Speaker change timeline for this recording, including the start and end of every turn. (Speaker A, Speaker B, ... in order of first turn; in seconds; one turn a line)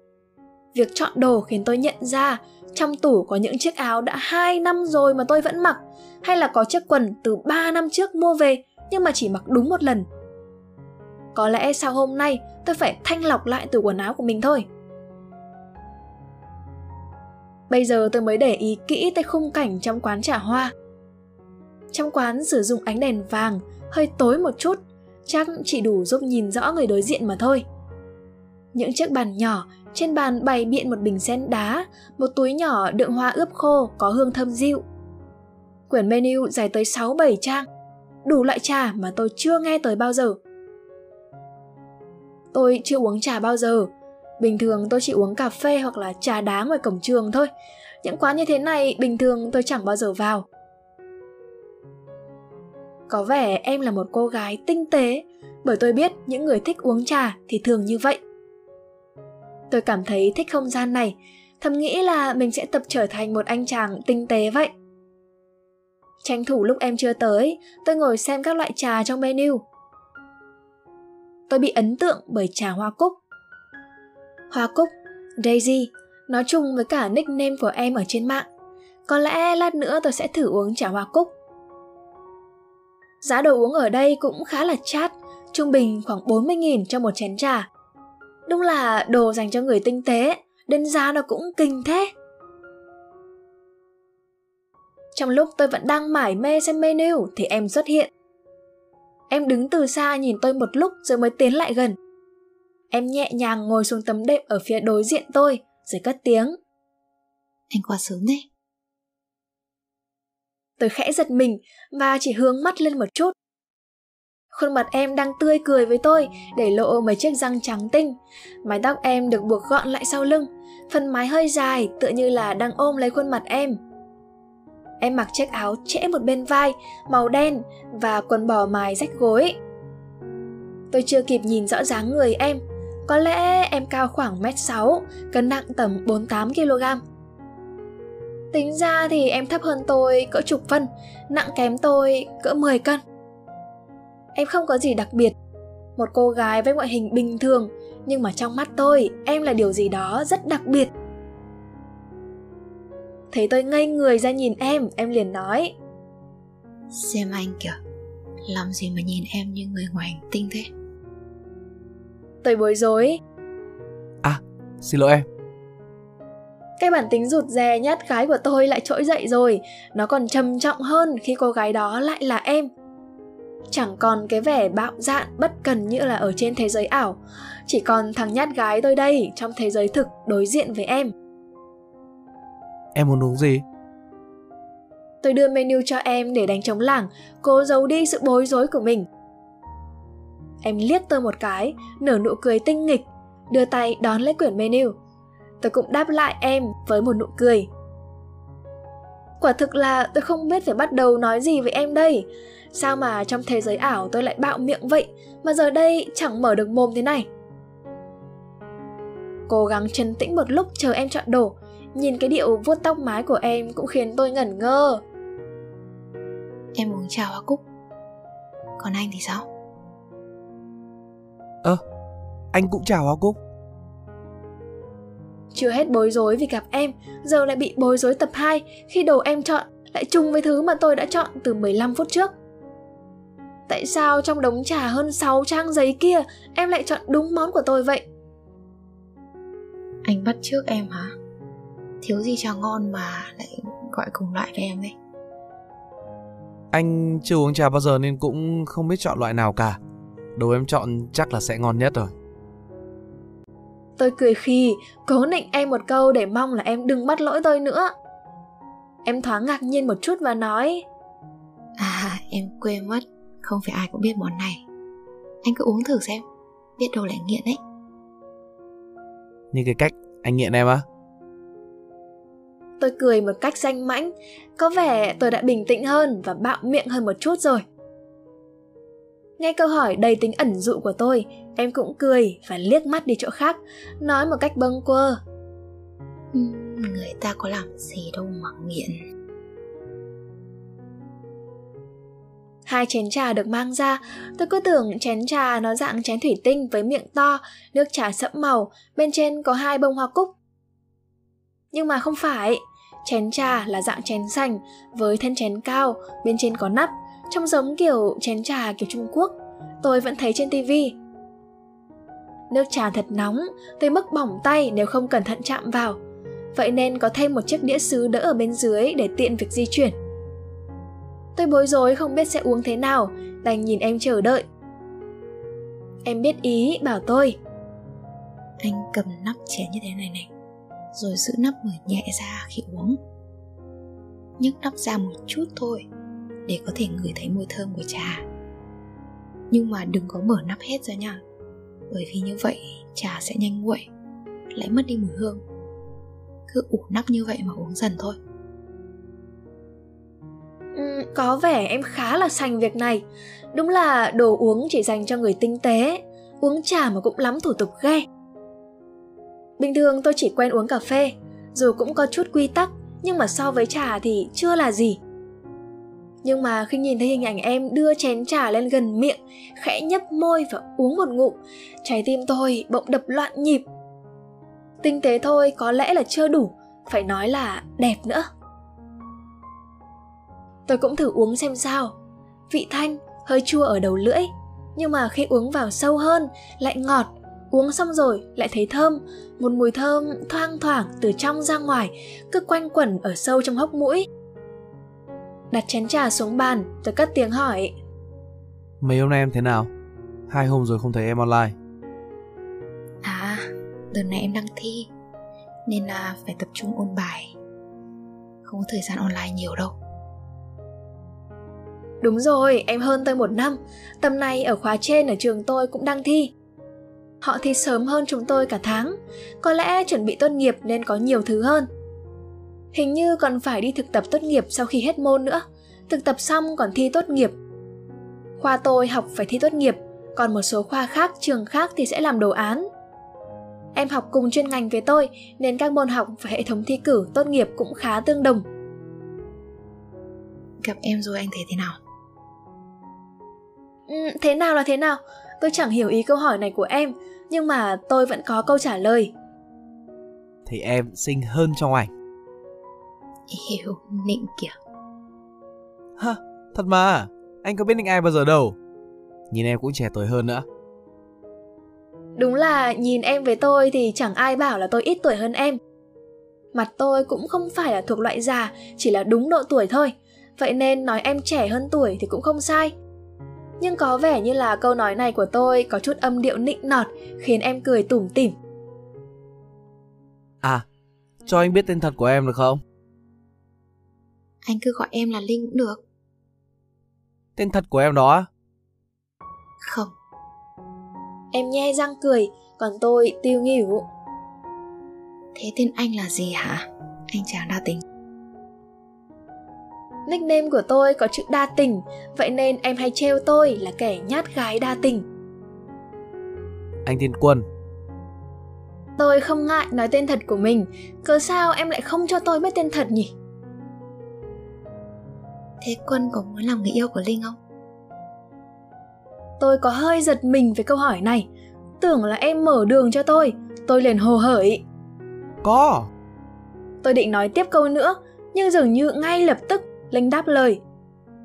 Speaker A: 0.7-10.1
Speaker A: 11.3-14.7
Speaker A: 17.7-20.7
Speaker A: 21.9-27.6
Speaker A: 28.7-34.8
Speaker A: 35.9-37.7
Speaker A: 38.2-40.4
Speaker A: 42.5-47.5
Speaker A: 48.0-50.5
Speaker A: 53.1-58.2
Speaker A: 59.7-64.7
Speaker A: 66.2-69.6
Speaker A: 71.5-73.2
Speaker A: 74.5-78.5
Speaker A: 79.1-81.3
Speaker A: 83.2-87.7
Speaker A: 88.5-92.1
Speaker A: 95.1-98.1
Speaker A: 99.3-102.0
Speaker A: 102.9-106.6
Speaker B: 107.7-108.5
Speaker A: 110.8-113.3
Speaker A: 114.5-123.8
Speaker A: 125.0-129.6
Speaker A: 130.9-137.0
Speaker A: 138.5-143.0
Speaker A: 144.3-145.3
Speaker A: 145.9-150.9
Speaker A: 153.3-155.7
Speaker B: 156.9-157.8
Speaker B: 158.5-160.7
Speaker A: 162.4-163.2
Speaker C: 164.2-165.2
Speaker A: 166.8-172.7
Speaker A: 173.7-181.1
Speaker C: 182.9-183.6
Speaker A: 185.2-189.1
Speaker A: 190.6-194.9
Speaker A: 195.6-197.7
Speaker A: 199.4-207.3
Speaker A: 209.5-215.0
Speaker B: 216.7-217.6
Speaker B: 218.8-219.5
Speaker C: 222.5-223.3
Speaker A: 225.5-232.3
Speaker A: 233.7-238.0
Speaker B: 240.0-241.1
Speaker B: 242.0-244.9
Speaker C: 246.7-249.8
Speaker C: 250.3-252.1
Speaker A: 254.0-257.9
Speaker A: 259.0-260.8
Speaker B: 261.8-264.6
Speaker B: 265.4-266.2
Speaker B: 266.8-267.6
Speaker C: 269.5-270.8
Speaker A: 272.8-277.6
Speaker A: 279.4-285.2
Speaker B: 286.3-289.0
Speaker A: 292.6-300.3
Speaker A: 301.7-311.0
Speaker A: 312.5-316.0
Speaker A: 316.5-319.9
Speaker A: 321.4-324.4
Speaker A: 326.0-327.4
Speaker B: 328.6-330.3
Speaker B: 330.9-333.0
Speaker B: 334.4-335.9
Speaker B: 336.4-338.2
Speaker B: 339.5-341.2
Speaker B: 341.9-343.9
Speaker B: 344.5-345.4
Speaker B: 346.5-348.2
Speaker A: 350.7-358.1
Speaker A: 359.6-365.0
Speaker A: 366.2-373.6
Speaker A: 374.8-378.3
Speaker A: 380.7-381.9
Speaker A: 382.5-394.1
Speaker A: 395.5-397.7
Speaker C: 398.8-399.7
Speaker C: 400.3-401.5
Speaker B: 403.0-404.9
Speaker B: 405.7-407.3
Speaker B: 408.4-409.7
Speaker A: 412.0-416.3
Speaker A: 417.2-421.7
Speaker A: 422.7-427.3
Speaker A: 428.4-432.7
Speaker A: 433.7-438.4
Speaker B: 440.6-441.8
Speaker A: 443.9-449.1
Speaker C: 450.4-451.9
Speaker B: 453.3-454.5
Speaker C: 456.0-458.5
Speaker C: 459.3-460.4
Speaker A: 462.2-465.6
Speaker A: 466.5-472.7
Speaker A: 473.6-478.4
Speaker C: 481.2-482.6
Speaker B: 484.4-485.8
Speaker C: 487.4-488.3
Speaker B: 489.6-489.9
Speaker A: 491.3-493.9
Speaker B: 495.3-497.8
Speaker A: 500.1-505.0
Speaker C: 506.8-507.4
Speaker A: 509.0-513.1
Speaker B: 515.6-517.4
Speaker A: 519.4-521.3
Speaker A: 521.8-524.6
Speaker C: 525.4-525.9
Speaker A: 526.8-530.6